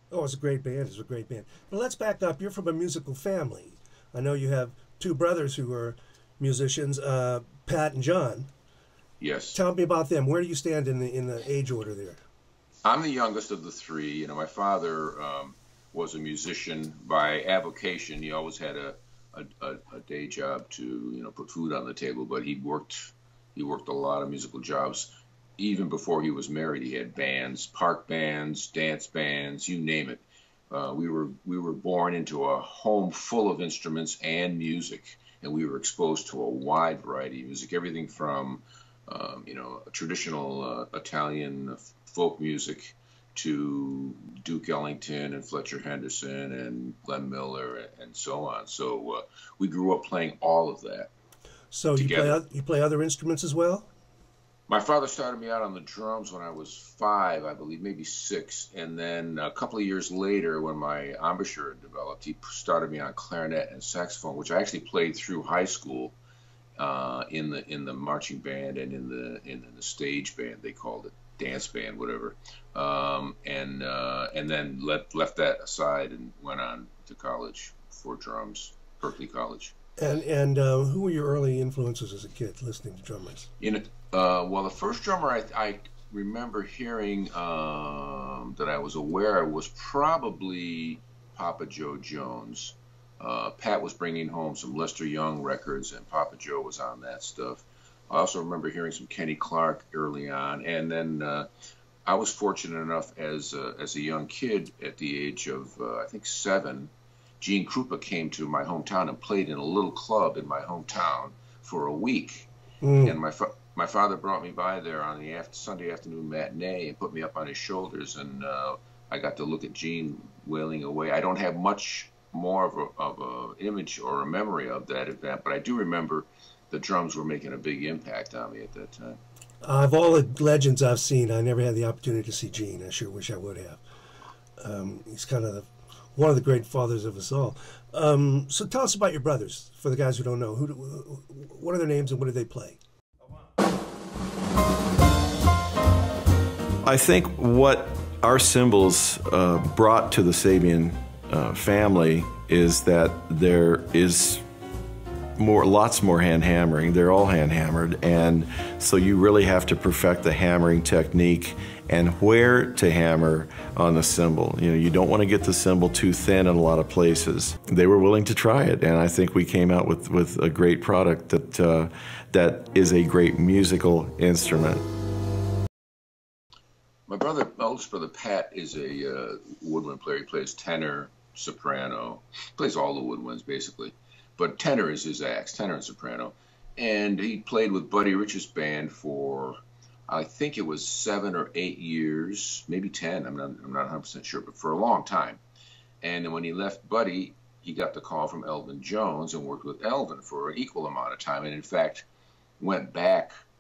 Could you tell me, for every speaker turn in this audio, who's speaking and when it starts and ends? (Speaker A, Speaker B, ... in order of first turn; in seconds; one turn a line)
Speaker A: 0.1-8.5
Speaker B: 9.2-9.6
Speaker A: 9.5-12.2
Speaker B: 12.8-51.1
Speaker A: 51.7-53.9
Speaker B: 52.0-52.4
Speaker B: 54.7-66.2
Speaker B: 66.8-79.7
Speaker A: 80.0-83.5
Speaker B: 83.6-101.5
Speaker B: 102.0-112.5
Speaker A: 112.8-113.2
Speaker B: 113.0-129.2
Speaker A: 129.6-133.8
Speaker A: 134.6-142.8
Speaker C: 146.8-154.4
Speaker C: 155.4-174.8
Speaker B: 177.1-195.4
Speaker B: 196.0-202.1
Speaker B: 202.6-203.3